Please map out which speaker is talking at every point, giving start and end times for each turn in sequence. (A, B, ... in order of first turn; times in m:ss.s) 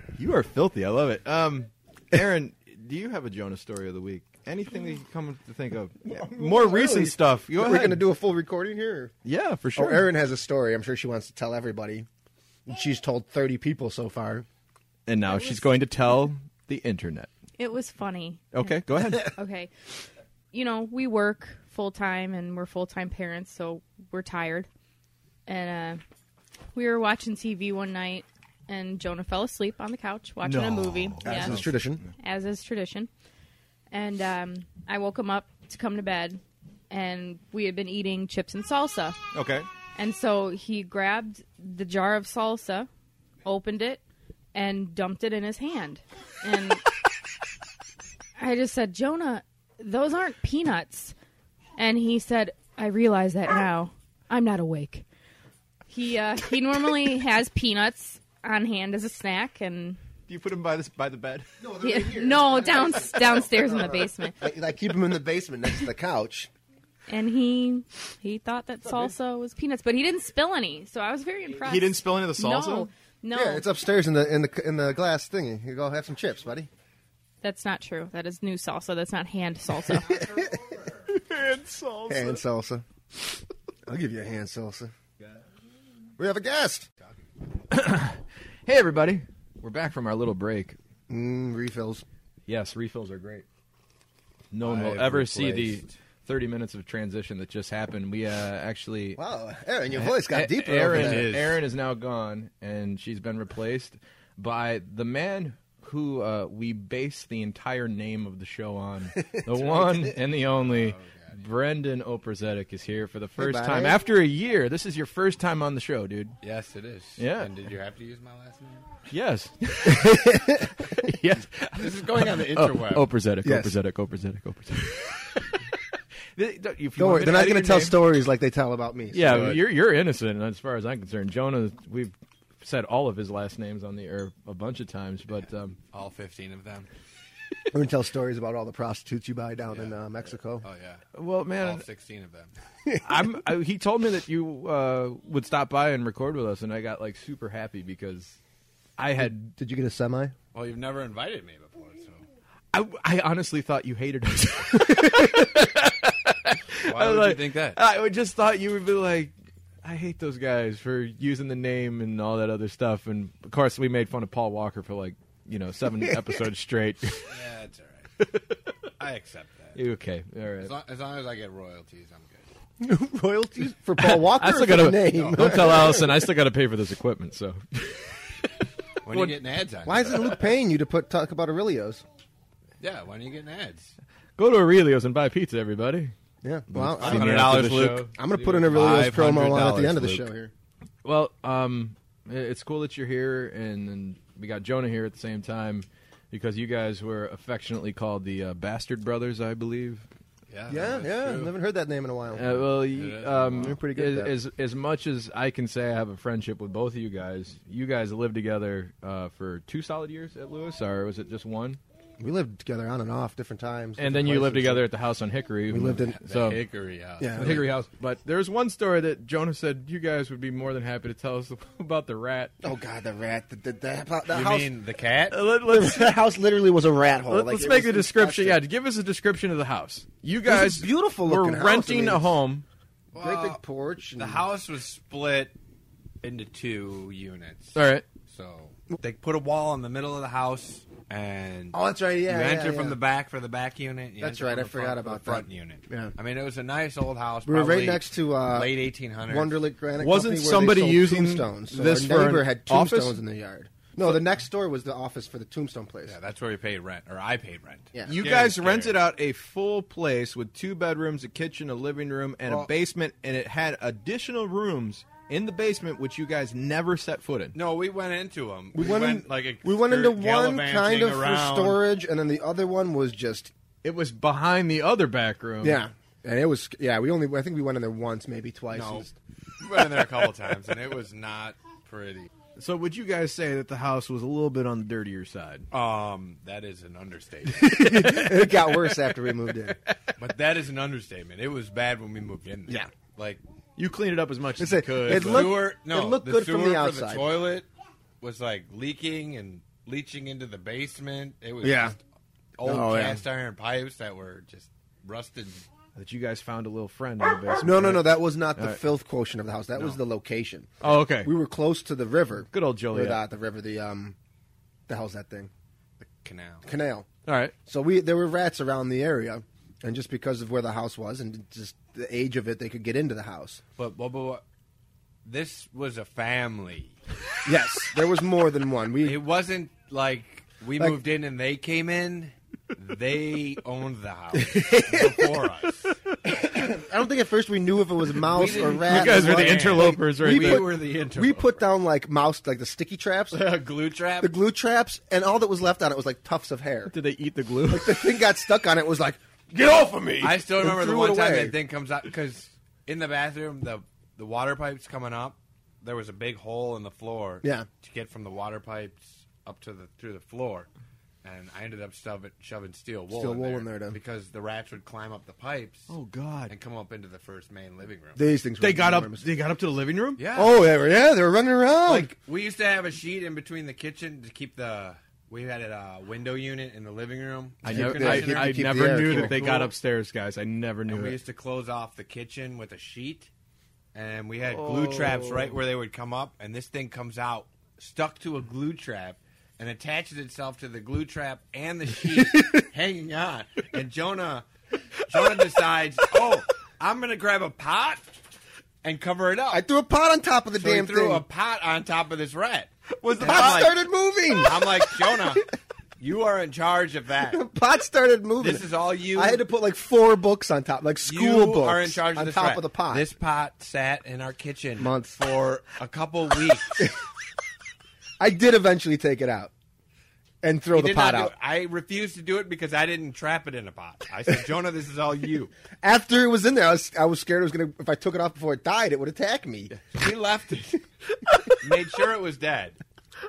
0:00.1-0:08.0 A
0:06.1-0:09.1 B
0:09.2-0:10.1 A
0:09.7-0:12.0 B
0:12.7-0:14.4 B
0:15.1-0:17.3 A
0:15.3-0:15.6 C
0:17.6-0:19.7 C
0:18.5-0:19.3 A
0:20.5-0:24.7 C
0:25.5-0:26.0 C
0:26.7-0:31.6 C
0:30.4-0:32.0 A
0:31.2-0:32.0 B
0:32.2-0:33.1 C
0:33.9-0:39.2 C
0:39.3-0:39.6 A
0:40.0-0:42.9 C
0:43.4-0:44.0 C
0:44.5-0:46.8 C
0:48.4-0:51.1 C
0:51.8-0:55.0 C
0:55.9-1:00.0 C
1:00.3-1:01.4 A
1:01.6-1:06.5 B
1:01.8-1:04.4 C
1:07.1-1:13.6 C
1:11.7-1:12.9 D
1:13.3-1:16.7 B
1:17.4-1:20.2 C
1:20.1-1:20.5 B
1:21.4-1:22.2 D
1:22.1-1:22.8 B
1:23.9-1:24.9 B
1:26.2-1:26.8 B
1:27.7-1:30.8 A
1:31.1-1:32.0 B
1:32.5-1:33.4 A
1:34.5-1:39.2 A
1:35.3-1:35.7 E
1:39.2-1:41.6 B
1:39.9-1:56.4 A
1:49.2-1:50.1 B
1:50.6-1:51.4 E
1:53.4-1:54.0 B
1:56.4-1:58.8 E
1:57.2-1:57.5 A
1:59.1-2:05.4 A
1:59.9-2:00.7 B
2:01.8-2:03.1 E
2:03.4-2:03.8 B
2:06.4-2:08.0 A
2:07.0-2:09.6 B
2:09.1-2:15.8 A
2:15.9-2:16.9 E
2:17.7-2:20.6 B
2:19.7-2:20.0 E
2:20.6-2:21.0 E
2:21.1-2:21.8 A
2:21.6-2:22.5 E
2:23.0-2:28.4 A
2:29.0-2:29.5 A
2:29.2-2:30.3 B
2:30.5-2:32.2 E
2:32.7-2:47.3 A
2:36.9-2:37.8 E
2:47.3-2:48.1 E
2:49.0-2:49.8 E
2:49.7-2:50.7 A
2:50.6-2:52.5 E
2:52.8-2:56.2 B
2:54.0-2:58.2 A
2:55.1-2:55.5 E
2:59.0-3:00.3 E
2:59.1-2:59.4 A
2:59.8-3:02.0 B
3:02.8-3:03.9 E
3:04.4-3:06.1 A
3:06.4-3:10.5 B
3:06.7-3:10.3 A
3:07.0-3:08.0 E
3:11.0-3:20.1 A
3:20.5-3:21.5 E
3:20.7-3:24.3 B
3:22.3-3:31.8 A
3:22.9-3:23.4 E
3:32.2-3:34.8 B
3:34.0-3:36.6 A
3:35.7-3:36.2 B
3:36.3-3:37.7 E
3:37.2-3:37.7 B
3:37.3-3:42.5 A
3:42.6-3:44.8 B
3:44.3-3:45.4 E
3:45.3-3:46.2 A
3:45.5-3:48.6 B
3:47.2-3:52.6 A
3:50.4-3:52.3 B
3:53.1-3:53.6 E
3:53.2-3:54.5 B
3:54.2-3:55.5 E
3:56.2-4:09.6 E
3:57.7-3:58.0 A
4:01.7-4:03.0 B
4:04.2-4:06.2 B
4:07.4-4:16.2 B
4:10.0-4:13.2 A
4:10.4-4:10.9 D
4:16.0-4:19.0 E
4:17.9-4:18.2 B
4:18.1-4:27.5 A
4:27.5-4:31.8 E
4:28.7-4:33.5 B
4:33.8-4:35.8 A
4:35.6-4:39.1 B
4:38.7-4:39.1 E
4:39.6-4:42.3 E
4:42.6-4:45.7 A
4:45.7-4:47.8 E
4:47.6-4:49.8 B
4:50.2-4:53.4 E
4:53.8-4:55.5 A
4:54.6-4:57.4 B
4:55.1-4:57.7 E
4:58.2-5:02.0 E
5:01.6-5:02.0 B
5:02.6-5:05.6 E
5:02.6-5:03.2 B
5:06.0-5:08.8 A
5:07.6-5:14.1 B
5:10.8-5:11.3 A
5:12.5-5:13.2 A
5:14.9-5:15.5 B
5:16.0-5:16.6 E
5:16.6-5:17.1 B
5:17.3-5:17.5 A
5:17.6-5:23.6 B
5:23.8-5:24.4 E
5:25.2-5:27.0 E
5:27.4-5:29.2 B
5:29.0-5:35.8 E
5:34.3-5:35.3 B
5:36.3-5:43.4 B
5:38.2-5:41.7 E
5:38.6-5:40.6 A
5:43.3-5:44.4 E
5:44.2-5:46.9 B
5:46.9-5:48.1 A
5:47.7-5:51.6 B
5:50.2-6:00.7 E
5:57.4-5:57.7 B
6:01.2-6:05.9 E
6:03.1-6:04.0 B
6:05.9-6:06.5 A
6:06.5-6:08.2 E
6:08.2-6:09.3 B
6:08.6-6:10.2 A
6:10.2-6:10.6 E
6:10.3-6:12.2 B
6:11.9-6:18.6 E
6:17.6-6:21.2 A
6:17.7-6:19.6 B
6:18.6-6:19.7 D
6:20.9-6:23.3 E
6:23.9-6:34.4 E
6:24.5-6:25.5 A
6:35.1-6:38.1 E
6:38.8-6:39.6 E
6:39.5-6:41.2 B
6:40.5-6:45.4 E
6:43.2-6:45.4 B
6:46.0-6:47.4 E
6:47.3-6:53.0 B
6:48.4-6:49.4 E
6:51.0-6:56.7 E
6:54.8-6:55.2 B
6:58.2-6:59.5 B
7:00.4-7:01.3 B
7:00.7-7:05.5 E
7:05.8-7:09.8 B
7:09.9-7:10.8 E
7:11.6-7:12.8 E